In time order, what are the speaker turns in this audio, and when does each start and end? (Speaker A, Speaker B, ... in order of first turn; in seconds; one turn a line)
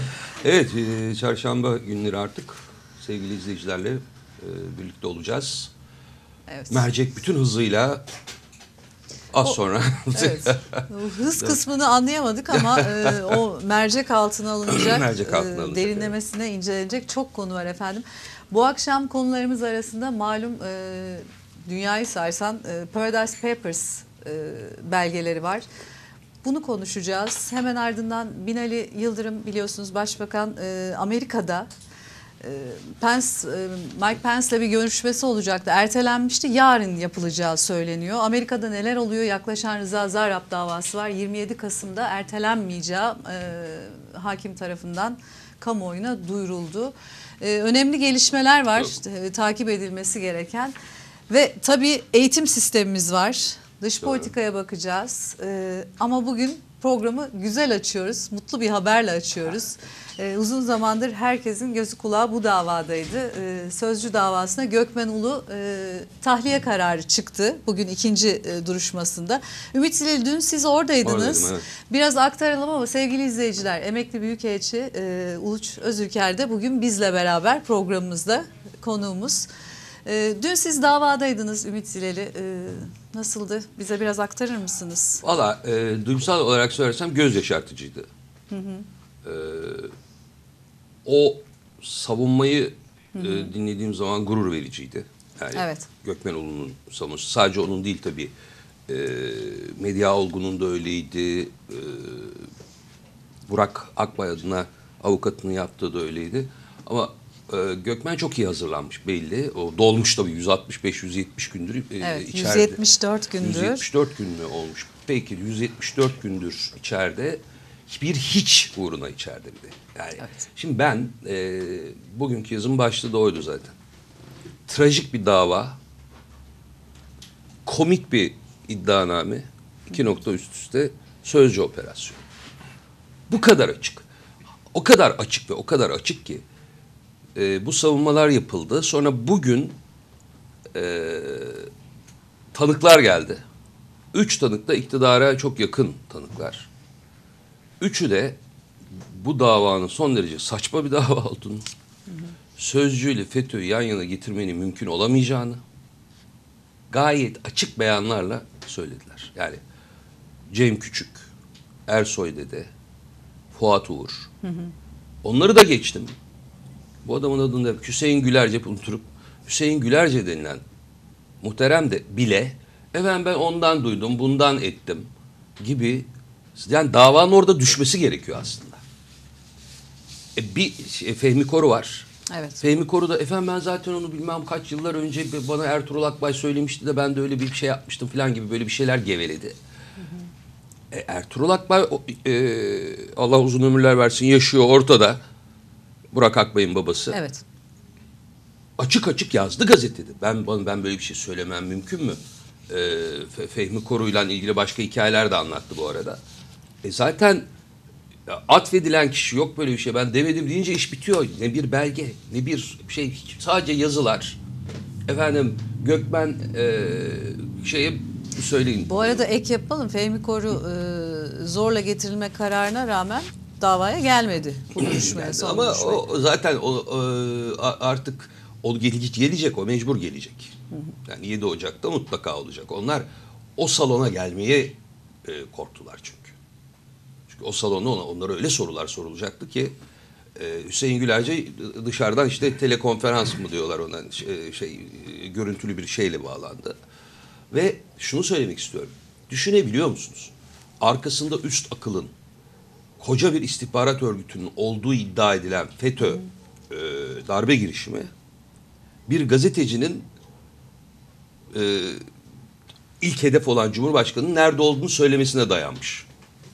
Speaker A: 0.4-5.7
Speaker B: 6.5-6.8
Speaker A: 6.7-8.0
Speaker A: 9.3-10.8
Speaker B: 10.1-25.6
Speaker A: 12.6-13.3
Speaker A: 14.7-16.1
Speaker B: 26.4-31.7
Speaker B: 32.4-50.7
Speaker B: 51.3-79.5
Speaker A: 54.0-54.3
Speaker A: 71.0-71.6
Speaker B: 80.0-85.2
Speaker A: 85.2-88.1
Speaker B: 88.5-88.8
Speaker A: 89.2-89.9
Speaker A: 91.0-98.3
Speaker B: 93.1-93.5
Speaker B: 95.5-95.9
Speaker A: 98.9-102.5
Speaker A: 103.5-112.8
Speaker B: 112.0-113.8
Speaker A: 113.4-123.7
Speaker A: 124.7-125.8
Speaker A: 127.6-132.2
Speaker A: 133.3-134.0
Speaker A: 134.7-136.4
Speaker A: 137.3-139.8
Speaker A: 140.7-141.7
Speaker A: 142.5-143.4
Speaker A: 144.1-146.7
Speaker A: 147.8-148.4
Speaker A: 148.9-151.7
Speaker A: 152.6-155.6
Speaker A: 156.9-159.6
Speaker A: 160.5-161.3
Speaker A: 161.9-162.7
Speaker A: 163.5-164.3
Speaker B: 164.4-164.7
Speaker A: 165.2-166.1
Speaker A: 167.0-170.6
Speaker A: 171.4-175.1
Speaker A: 175.6-178.8
Speaker A: 180.3-182.1
Speaker B: 182.3-182.6
Speaker A: 182.6-189.5
Speaker B: 190.0-190.2
Speaker A: 190.9-195.2
Speaker A: 196.1-197.2
Speaker B: 197.1-197.4
Speaker A: 198.8-206.2
Speaker A: 206.8-207.4
Speaker A: 208.3-214.4
Speaker A: 215.1-219.1
Speaker B: 218.8-226.1
Speaker A: 224.7-230.5
Speaker A: 231.0-236.3
Speaker A: 237.3-239.7
Speaker A: 240.3-246.7
Speaker A: 247.5-252.1
Speaker A: 253.0-258.1
Speaker A: 259.1-260.0
Speaker A: 261.5-262.0
Speaker A: 263.0-266.1